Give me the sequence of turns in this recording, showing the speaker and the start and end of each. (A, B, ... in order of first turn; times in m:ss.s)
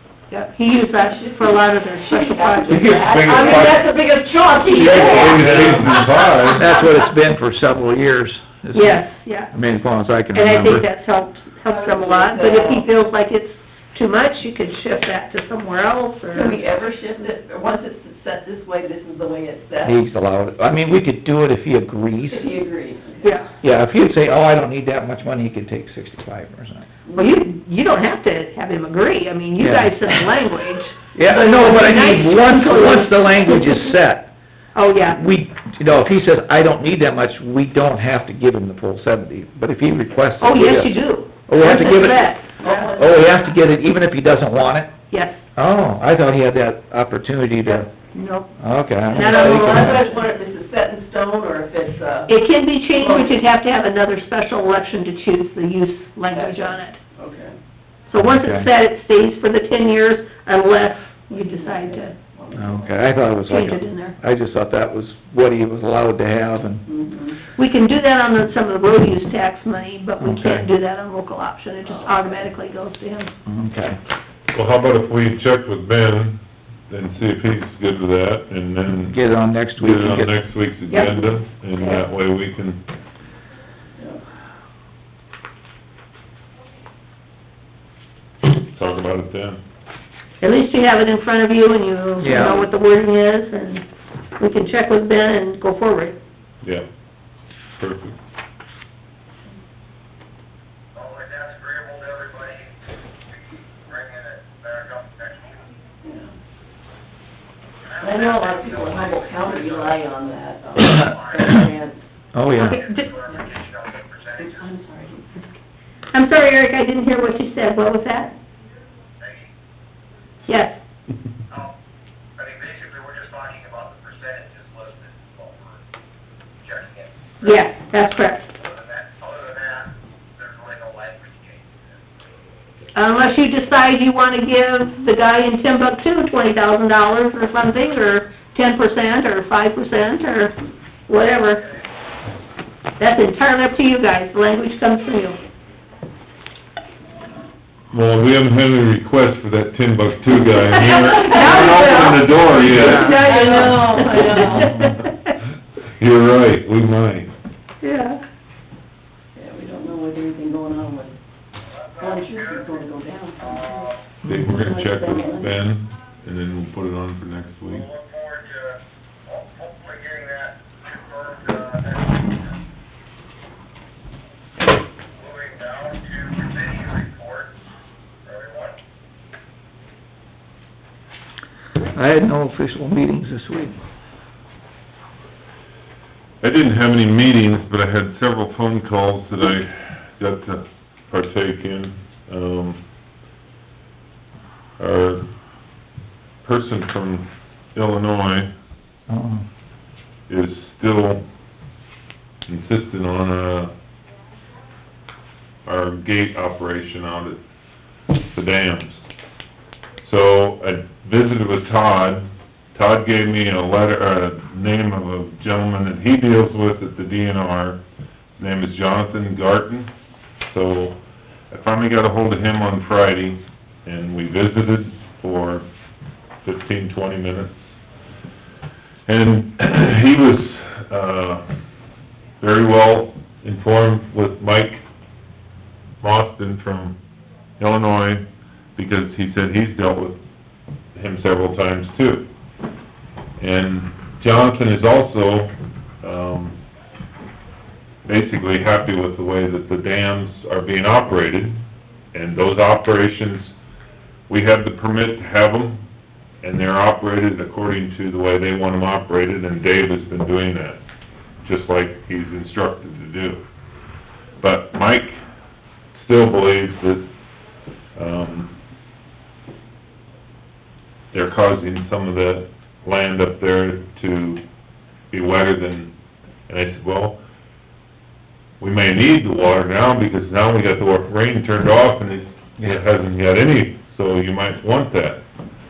0:00.3-0:03.6 A
0:01.0-0:06.9 B
0:02.7-0:03.6 C
0:02.9-0:03.8 D
0:04.8-0:06.7 D
0:04.8-0:05.5 A
0:04.8-0:10.9 C
0:08.7-0:09.5 A
0:10.3-0:16.6 A
0:11.7-0:12.9 B
0:16.3-0:20.0 B
0:19.8-0:22.5 C
0:22.2-0:23.5 B
0:23.2-0:23.5 A
0:23.6-0:26.9 C
0:27.1-0:27.4 B
0:27.2-0:33.9 A
0:29.6-0:30.2 C
0:31.2-0:34.3 C
0:34.8-0:35.2 A
0:35.1-0:42.4 C
0:40.4-0:42.9 A
0:42.6-0:43.5 B
0:43.0-0:44.9 C
0:45.1-0:45.4 A
0:45.5-0:47.9 C
0:47.7-0:48.5 A
0:48.6-0:50.0 C
0:49.1-0:50.1 A
0:49.1-0:52.3 B
0:52.3-0:57.0 A
0:52.9-0:53.4 B
0:56.3-0:57.6 B
0:58.1-1:02.1 A
0:58.2-0:58.7 C
1:01.3-1:03.0 B
1:02.6-1:06.8 C
1:03.5-1:04.2 A
1:06.9-1:07.4 B
1:07.6-1:13.3 A
1:10.2-1:10.7 C
1:11.8-1:12.5 B
1:13.5-1:14.0 C
1:14.5-1:19.2 D
1:19.0-1:20.3 C
1:19.8-1:22.8 D
1:20.9-1:22.0 A
1:24.0-1:24.2 B
1:28.7-1:29.6 D
1:30.4-1:33.9 A
1:32.2-1:32.7 C
1:34.4-1:36.2 A
1:37.8-1:38.2 D
1:41.0-1:42.8 E
1:43.3-1:45.7 E
1:46.0-1:46.3 B
1:47.8-1:51.6 E
1:48.0-1:52.0 B
1:52.3-1:52.8 C
1:52.5-1:53.1 A
1:52.6-1:54.7 E
1:53.2-1:53.6 B
1:54.4-1:55.4 B
1:56.1-1:58.3 A
1:59.2-1:59.5 E
2:00.5-2:00.8 A
2:01.5-2:01.8 E
2:02.4-2:05.8 E
2:06.6-2:07.6 E
2:07.4-2:08.5 A
2:08.6-2:12.0 E
2:12.9-2:20.5 A
2:21.1-2:21.7 A
2:23.0-2:25.4 A
2:27.9-2:33.3 D
2:30.8-2:35.3 A
2:30.8-2:35.0 B
2:32.7-2:34.0 C
2:36.0-2:37.3 D
2:37.8-2:38.2 A
2:39.4-2:41.2 B
2:41.7-2:44.1 E
2:42.0-2:45.6 B
2:44.2-2:47.9 D
2:47.7-2:52.5 E
2:55.2-2:57.5 E
2:58.2-2:58.8 E
3:01.8-3:03.8 C
3:06.4-3:12.8 D
3:14.8-3:15.2 D
3:16.4-3:18.5 D
3:19.1-3:19.4 C
3:20.3-3:21.2 D
3:22.5-3:23.7 D
3:25.6-3:27.4 D
3:28.3-3:29.0 D
3:30.0-3:37.8 D
3:38.4-3:39.9 D
3:40.5-3:41.0 D
3:41.5-3:45.6 D
3:46.4-3:47.5 D
3:49.1-3:51.4 D
3:52.4-3:54.8 D
3:56.0-3:57.0 D
3:57.6-3:58.2 D
3:58.8-4:00.2 D
4:01.0-4:02.3 D
4:03.4-4:06.6 D
4:08.1-4:11.6 D
4:12.1-4:13.5 D
4:14.3-4:15.8 D
4:16.4-4:20.8 D
4:21.4-4:23.4 D
4:24.4-4:25.2 D
4:25.9-4:27.0 D
4:28.0-4:28.5 D
4:31.1-4:34.4 D
4:35.1-4:35.9 D
4:36.5-4:37.2 D
4:38.6-4:45.2 D